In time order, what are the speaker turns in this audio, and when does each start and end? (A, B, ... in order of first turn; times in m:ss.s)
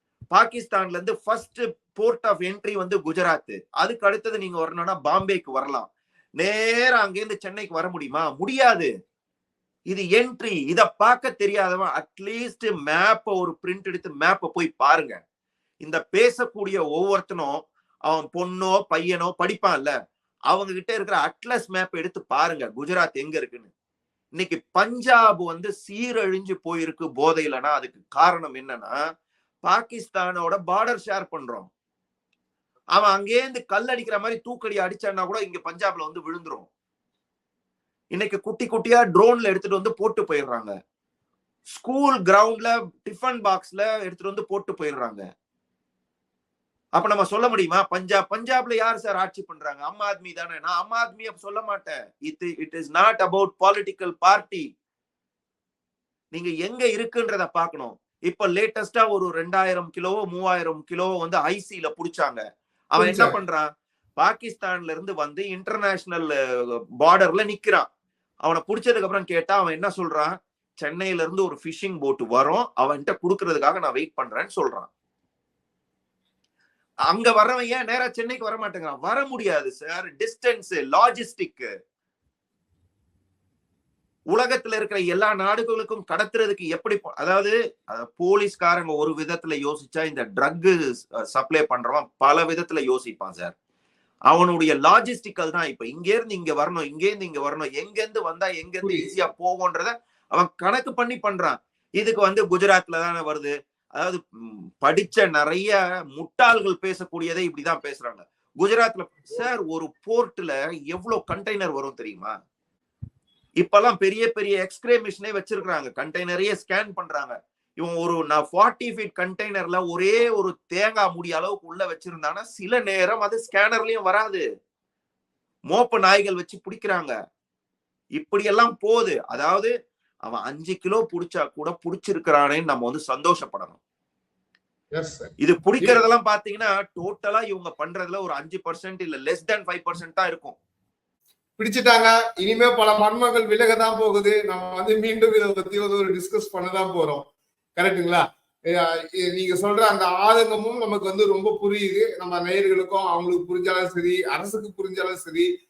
0:00.3-0:08.9 A
0:09.9-0:15.2 A
0:15.8-0:19.9 A
0:20.5-0:23.7 A
0:24.4-0:28.9 A
0:29.6-0:31.7 A
0:33.0-0:36.7 A
0:38.1-0:40.7 A
0:41.7-0:45.2 A
0:47.0-0:54.6 A
0:56.3-1:02.4 A
1:02.9-1:03.7 A
1:03.0-1:03.4 B
1:04.2-1:07.9 A
1:08.4-1:14.9 A
1:17.1-1:21.7 A
1:24.3-1:30.8 A
1:31.3-1:33.5 A
1:34.3-1:52.3 A
1:38.8-1:39.1 B
1:53.6-2:04.4 A
2:05.7-2:07.1 A
2:08.2-2:09.7 A
2:10.3-2:13.8 A
2:14.9-2:16.0 B
2:15.4-2:20.6 A
2:21.6-2:35.5 B